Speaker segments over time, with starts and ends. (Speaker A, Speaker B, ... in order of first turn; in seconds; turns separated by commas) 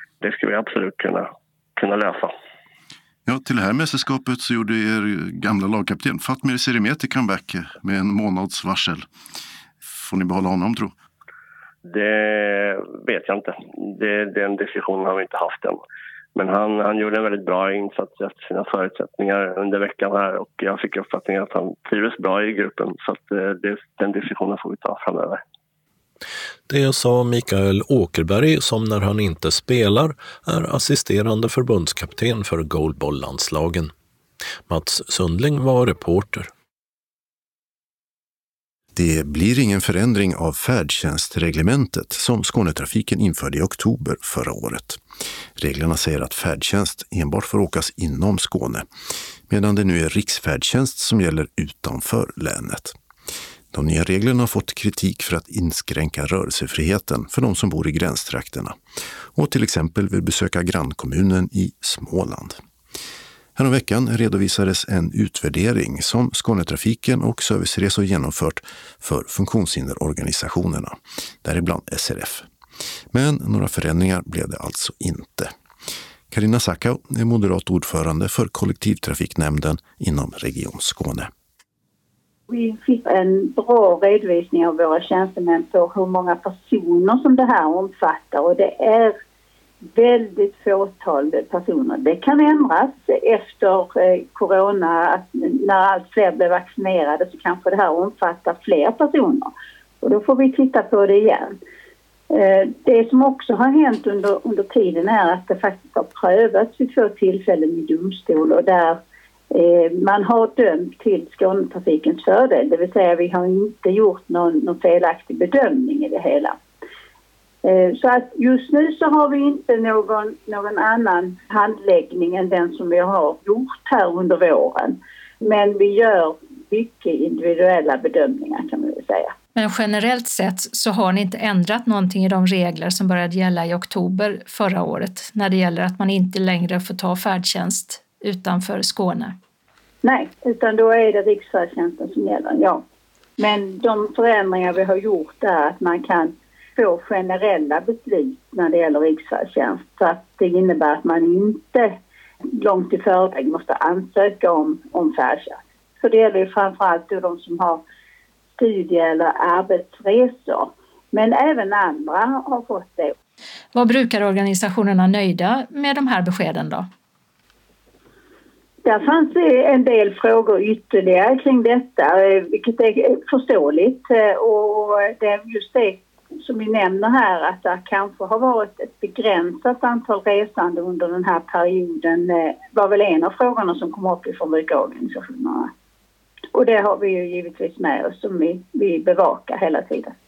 Speaker A: 0.2-2.3, Speaker B: 3.3-9.1, Speaker B: 9.8-10.9, Speaker A: 11.8-15.8, Speaker A: 16.4-25.4, Speaker C: 26.7-33.9, Speaker C: 34.7-36.5, Speaker B: 39.0-45.0, Speaker B: 45.6-48.9, Speaker B: 49.5-53.0, Speaker B: 53.7-58.8, Speaker B: 59.3-62.6, Speaker B: 63.6-72.5, Speaker B: 73.1-75.5, Speaker B: 76.3-81.3, Speaker D: 82.5-89.2, Speaker D: 89.9-101.6, Speaker D: 102.3-116.6, Speaker D: 117.6-129.3, Speaker E: 129.6-139.3, Speaker D: 140.0-142.8, Speaker D: 143.4-151.9, Speaker D: 152.6-157.8, Speaker D: 158.6-163.2, Speaker E: 163.7-166.9, Speaker D: 168.8-185.7, Speaker D: 186.5-190.2